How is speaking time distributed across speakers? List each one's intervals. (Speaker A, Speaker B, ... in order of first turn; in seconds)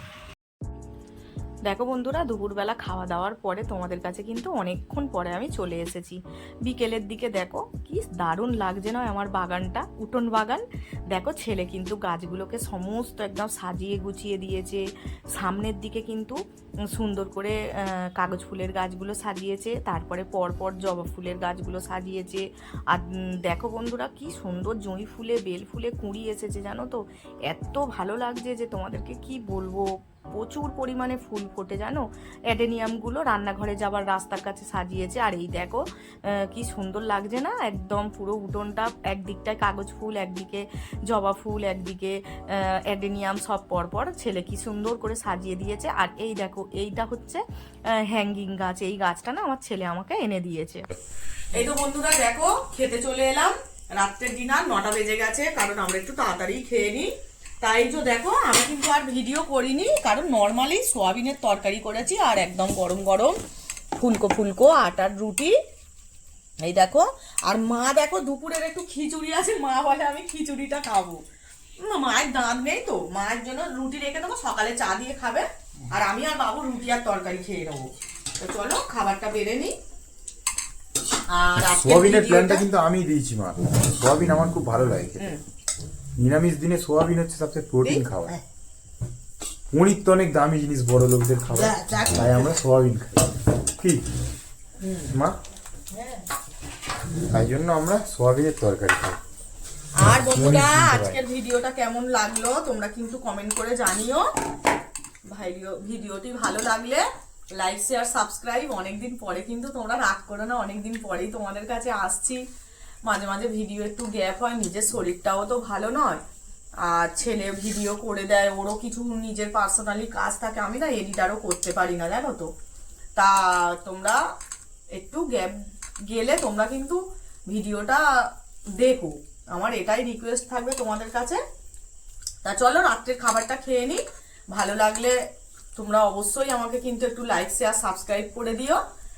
Speaker A: 1.6-16.4, 16.9-35.8, 36.3-47.4, 48.1-50.8
Speaker B: 51.5-57.1, 57.6-63.4, 64.0-65.5, 66.6-71.2, 71.8-79.8, 81.3-82.7, 91.6-92.2, 100.0-104.3, 105.3-112.5, 113.0-116.2, 116.8-122.5, 123.2-124.2, 124.9-131.4, 132.4-135.2, 135.8-138.8
Speaker C: 81.6-85.3, 86.2-88.3, 89.7-94.0, 95.1-95.4, 97.3-99.2, 100.2-101.2